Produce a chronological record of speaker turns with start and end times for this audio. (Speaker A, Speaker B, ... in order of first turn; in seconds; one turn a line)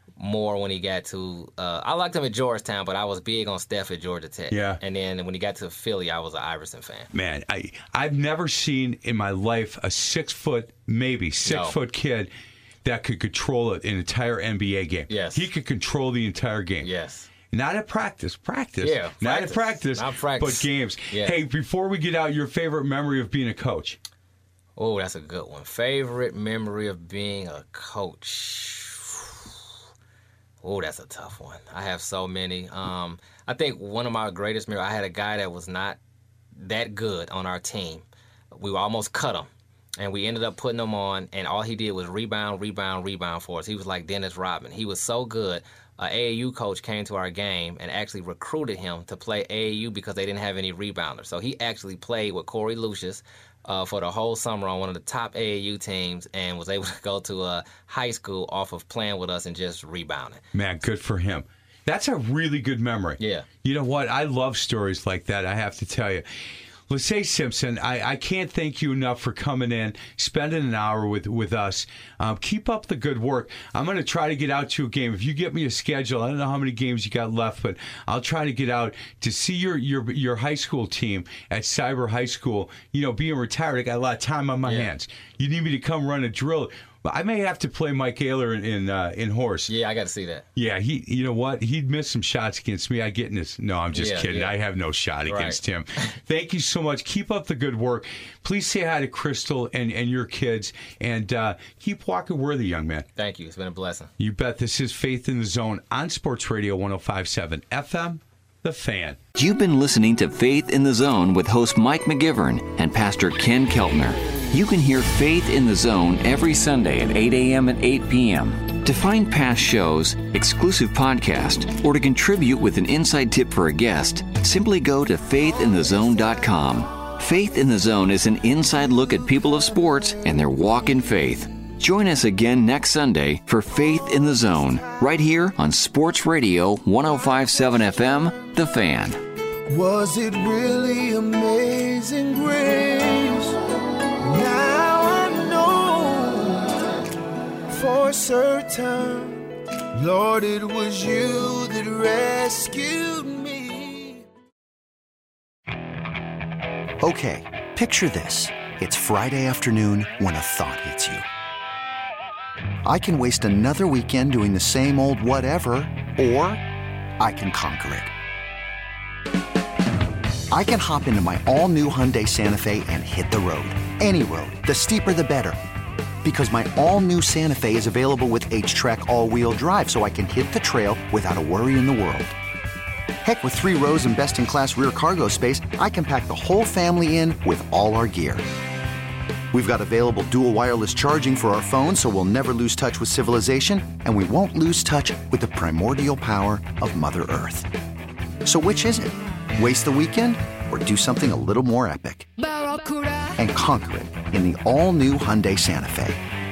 Speaker A: 0.2-7.1
Speaker B: 4.5-4.8
Speaker B: 7.1-12.3
Speaker A: 11.4-11.8
Speaker B: 12.8-16.9
Speaker A: 15.1-15.5
Speaker A: 16.8-17.3
Speaker B: 17.5-24.0
Speaker A: 18.8-21.4
Speaker A: 24.8-29.5
Speaker A: 30.6-36.0
Speaker A: 36.6-60.4
Speaker B: 60.5-66.2
Speaker A: 63.2-63.5
Speaker B: 66.9-89.7
Speaker A: 84.6-84.9
Speaker A: 89.7-90.4
Speaker B: 90.5-103.1
Speaker A: 93.9-94.5
Speaker A: 95.3-96.1
Speaker A: 103.2-104.1
Speaker B: 104.2-109.2
Speaker C: 109.3-139.2
Speaker D: 139.7-143.6
Speaker D: 144.2-147.0
Speaker D: 147.7-154.2
Speaker E: 157.0-161.3
Speaker E: 162.8-166.6
Speaker E: 167.2-168.1
Speaker E: 170.5-175.6
Speaker E: 176.2-182.3
Speaker E: 183.2-188.5
Speaker E: 189.5-197.7
Speaker E: 198.4-202.6
Speaker E: 203.2-206.2